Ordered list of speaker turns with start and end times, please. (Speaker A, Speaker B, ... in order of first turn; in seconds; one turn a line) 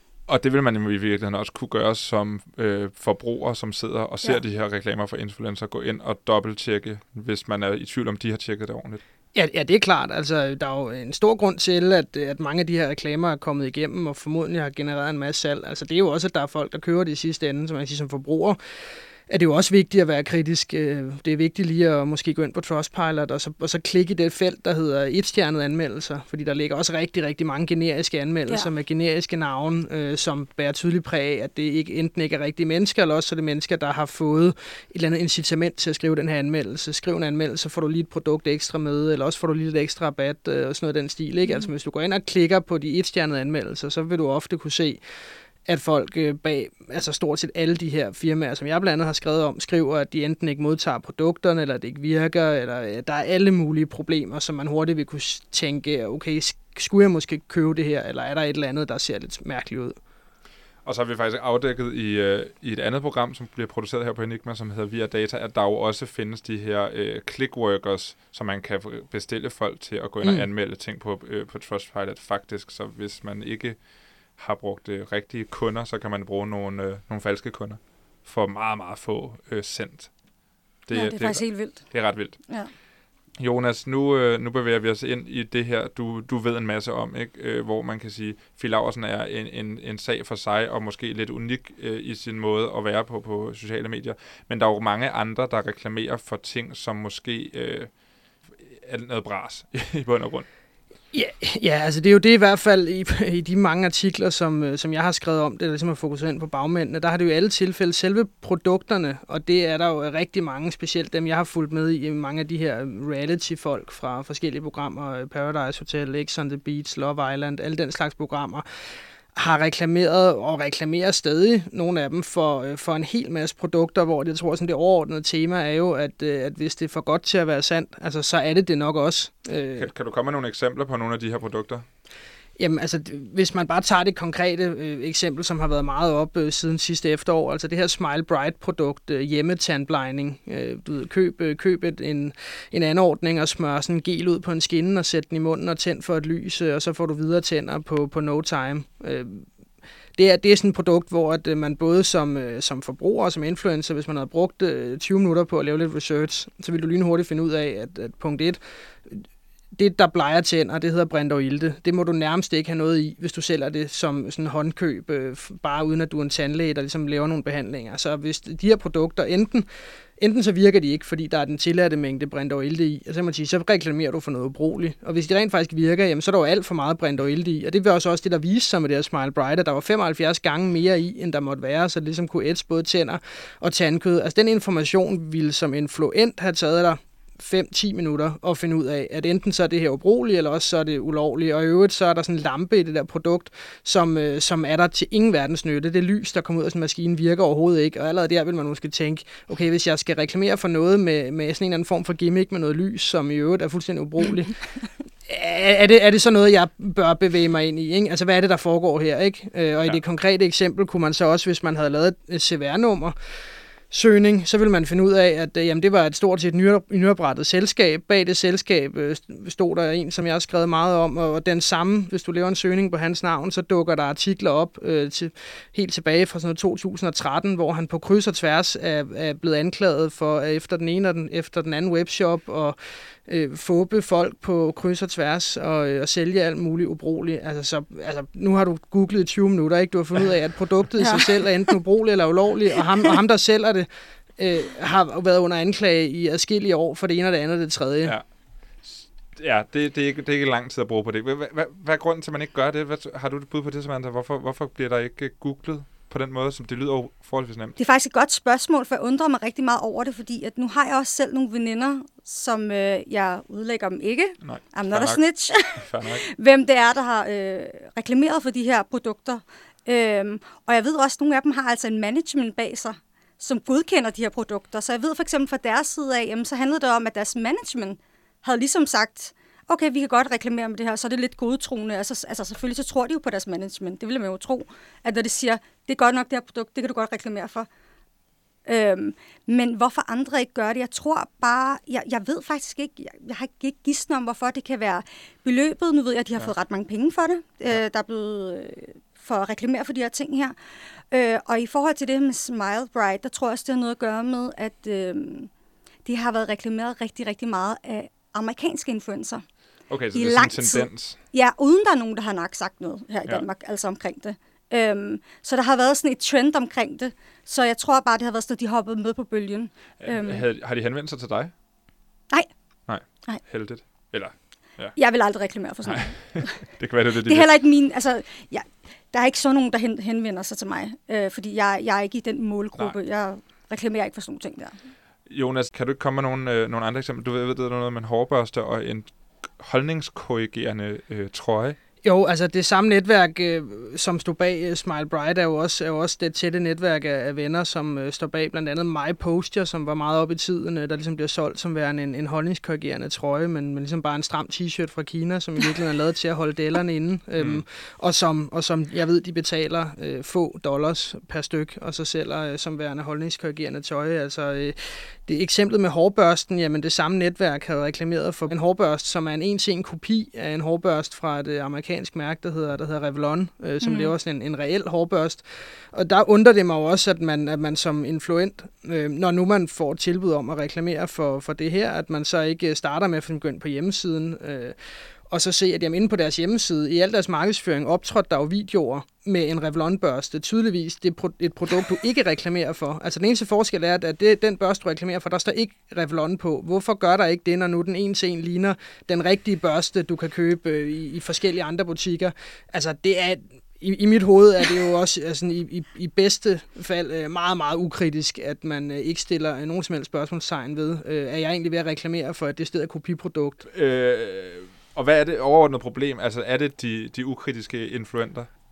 Speaker A: 0.3-9.0
Speaker B: 9.3-18.6
Speaker B: 19.3-45.0
Speaker C: 41.4-41.7
Speaker B: 45.6-59.9
Speaker A: 60.8-73.8
Speaker A: 74.3-80.1
Speaker A: 80.8-82.4
Speaker C: 80.9-82.7
Speaker A: 83.4-97.9
Speaker A: 98.6-100.5
Speaker B: 101.1-118.6
Speaker B: 119.3-129.9
Speaker A: 129.8-131.8
Speaker B: 132.6-149.5
Speaker B: 150.2-159.2
Speaker B: 159.8-169.7
Speaker B: 170.2-204.6
Speaker B: 205.2-232.7
Speaker B: 233.2-248.1
Speaker C: 241.0-241.7
Speaker A: 248.8-257.8
Speaker C: 257.8-287.7
Speaker A: 264.4-266.2
Speaker C: 288.6-300.5
Speaker C: 301.1-305.5
Speaker C: 306.0-309.4
Speaker A: 309.9-311.2
Speaker C: 310.1-320.4
Speaker A: 320.0-321.5
Speaker A: 322.9-324.9
Speaker C: 324.9-326.6
Speaker A: 325.9-327.5
Speaker C: 327.2-334.7
Speaker A: 335.3-341.8
Speaker B: 342.0-384.8
Speaker A: 357.4-357.6
Speaker C: 373.8-374.1
Speaker B: 385.3-413.6
Speaker A: 413.6-418.5